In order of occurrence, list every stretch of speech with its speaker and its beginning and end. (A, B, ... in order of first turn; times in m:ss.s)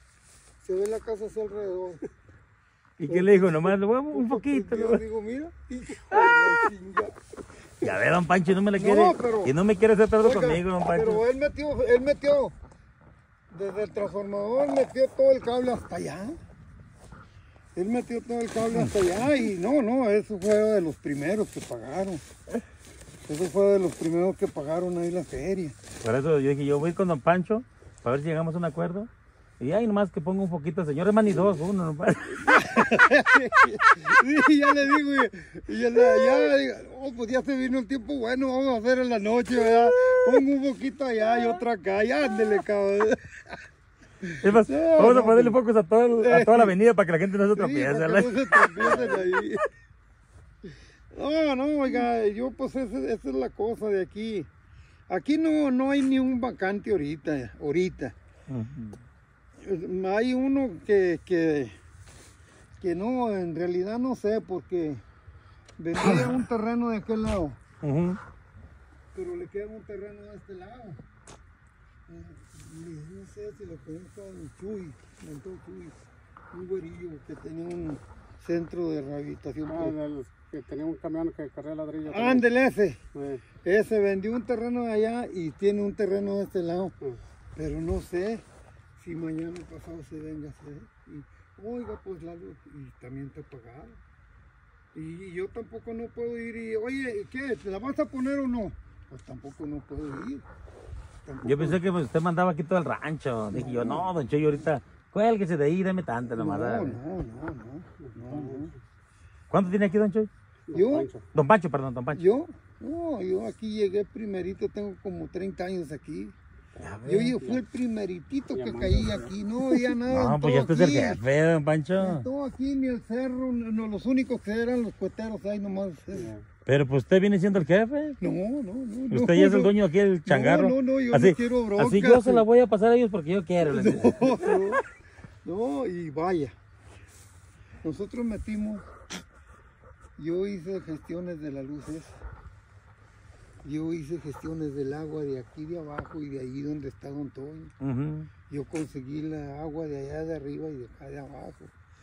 0:00.6-0:02.0 A
0:03.0-0:05.0 B
0:03.1-0:07.1 A
0:07.8-0:11.2 B
0:08.7-0:09.5 A
0:10.2-0:12.5 A
0:13.5-0:16.4 A
0:17.7-0:22.2 A
0:23.2-0:25.8 A
0:26.0-0:29.1 B
0:29.6-0:33.1 B
0:32.4-0:43.6 A
0:44.2-0:45.6 A
0:44.4-0:49.2 B
0:46.2-0:46.7 A
0:47.5-0:49.6 A
0:51.1-0:54.5 A
0:55.1-0:58.1 A
0:58.5-0:59.0 B
0:59.6-1:01.7 A
1:02.8-1:05.0 A
1:05.8-1:07.6 A
1:06.0-1:06.4 B
1:07.8-1:08.2 B
1:09.1-1:11.0 A
1:12.1-1:15.9 A
1:16.5-1:20.0 A
1:19.7-1:22.4 C
1:22.0-1:23.0 A
1:23.1-1:23.4 C
1:23.6-1:27.0 A
1:27.5-1:28.4 A
1:29.0-1:34.0 A
1:34.9-1:40.4 A
1:41.2-1:41.8 A
1:41.4-1:47.0 B
1:43.5-1:44.1 A
1:46.3-1:48.8 A
1:48.0-1:48.8 C
1:49.5-1:50.3 B
1:50.7-1:51.2 C
1:50.7-1:51.1 A
1:51.3-1:52.2 B
1:52.1-1:56.3 A
1:56.8-1:57.6 C
1:57.0-2:01.2 A
1:58.6-1:59.3 C
2:00.1-2:02.3 B
2:02.0-2:06.3 A
2:06.6-2:08.2 B
2:08.2-2:12.4 A
2:09.1-2:14.5 B
2:13.6-2:14.8 A
2:15.4-2:16.5 A
2:17.8-2:18.8 A
2:20.2-2:22.2 A
2:23.6-2:27.7 A
2:27.8-2:28.3 B
2:28.5-2:31.7 A